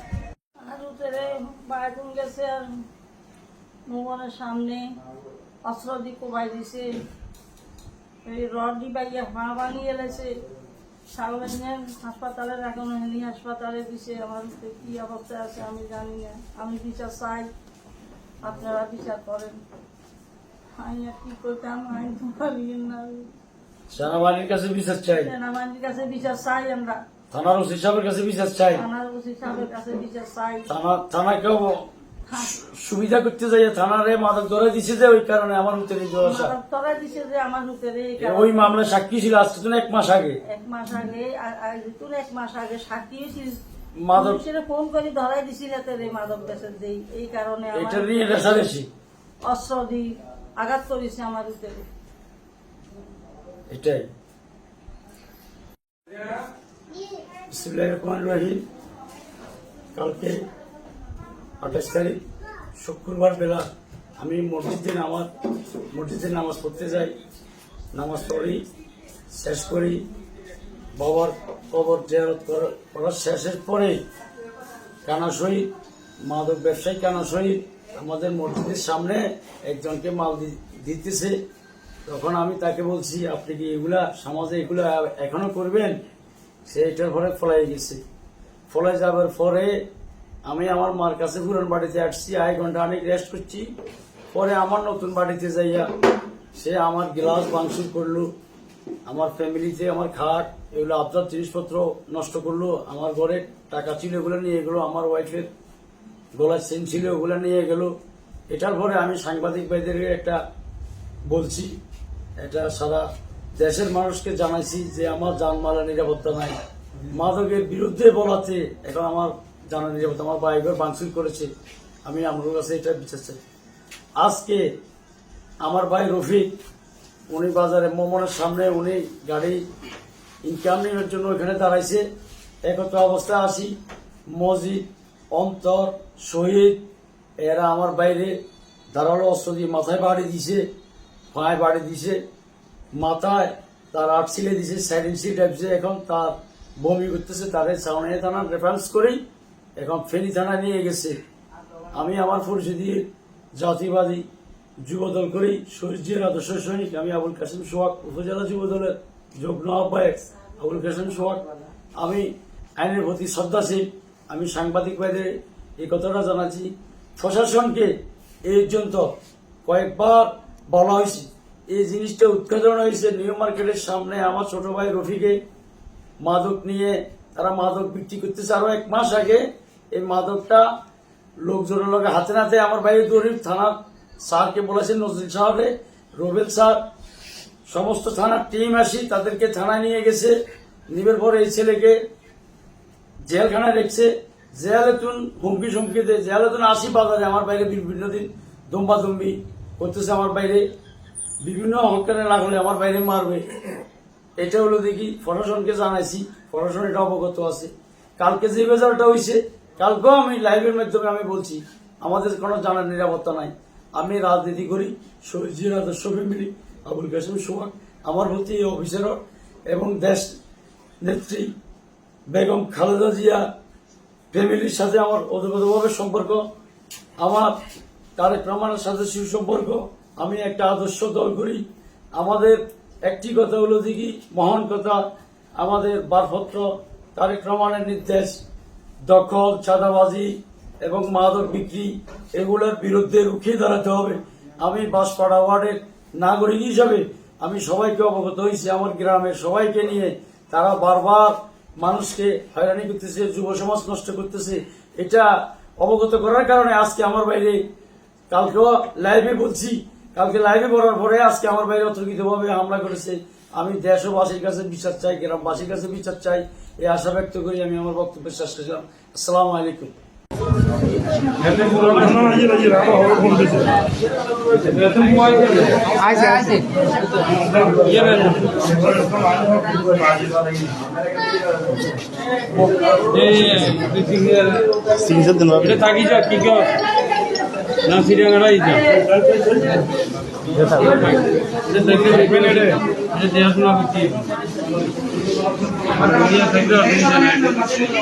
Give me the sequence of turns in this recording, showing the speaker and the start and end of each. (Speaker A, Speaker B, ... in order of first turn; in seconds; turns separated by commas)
Speaker A: 0.6-2.9, Speaker A: 3.9-5.0, Speaker A: 5.7-6.9, Speaker A: 8.2-10.4, Speaker A: 11.1-17.5, Speaker A: 18.4-19.6, Speaker A: 20.8-23.3, Speaker B: 23.9-25.3, Speaker A: 25.2-27.0, Speaker B: 27.3-28.8, Speaker A: 28.8-30.7, Speaker B: 30.7-36.5, Speaker A: 32.3-32.5, Speaker A: 36.2-38.6, Speaker B: 38.2-40.4, Speaker A: 40.5-43.6, Speaker B: 44.0-44.4, Speaker A: 44.1-48.6, Speaker B: 47.7-48.9, Speaker A: 49.4-51.9, Speaker B: 53.7-54.1, Speaker B: 57.5-58.6, Speaker B: 60.0-60.4, Speaker B: 61.6-62.2, Speaker B: 62.8-63.7, Speaker B: 64.2-65.3, Speaker B: 65.9-67.1, Speaker B: 67.9-68.6, Speaker B: 69.3-70.1, Speaker B: 70.9-74.0, Speaker B: 75.0-75.7, Speaker B: 76.2-81.4, Speaker B: 82.1-86.0, Speaker B: 86.7-88.0, Speaker B: 88.7-89.8, Speaker B: 90.5-93.7, Speaker B: 94.3-95.9, Speaker B: 96.6-98.3, Speaker B: 99.1-105.5, Speaker B: 106.3-107.9, Speaker B: 108.5-110.4, Speaker B: 111.3-111.8, Speaker B: 112.4-116.6, Speaker B: 117.1-121.5, Speaker B: 122.0-123.4, Speaker B: 124.2-124.7, Speaker B: 125.6-126.5, Speaker B: 127.3-129.6, Speaker B: 130.4-132.1, Speaker B: 132.6-133.8, Speaker B: 134.3-136.8, Speaker B: 137.4-138.4, Speaker B: 138.9-140.7, Speaker B: 141.3-142.2, Speaker B: 143.0-149.2, Speaker B: 149.8-151.2, Speaker B: 151.9-154.2, Speaker B: 154.8-167.9, Speaker B: 168.5-169.1, Speaker B: 169.7-175.4, Speaker B: 176.2-180.7, Speaker B: 181.4-186.8, Speaker B: 187.7-190.3, Speaker B: 190.9-192.0, Speaker B: 193.2-200.7, Speaker B: 201.4-203.6, Speaker B: 204.4-219.2, Speaker B: 219.7-220.3, Speaker B: 221.0-221.5, Speaker B: 222.3-223.5, Speaker B: 224.3-226.4, Speaker B: 227.2-227.5, Speaker B: 228.2-231.6, Speaker B: 232.2-235.0, Speaker B: 235.6-238.4, Speaker B: 239.1-257.6, Speaker B: 258.3-269.9, Speaker C: 271.4-273.7, Speaker C: 274.5-276.7, Speaker C: 277.2-280.7, Speaker C: 282.6-286.7, Speaker B: 286.1-286.7, Speaker C: 287.9-289.9, Speaker B: 288.0-288.7, Speaker C: 290.5-294.3, Speaker C: 295.9-297.7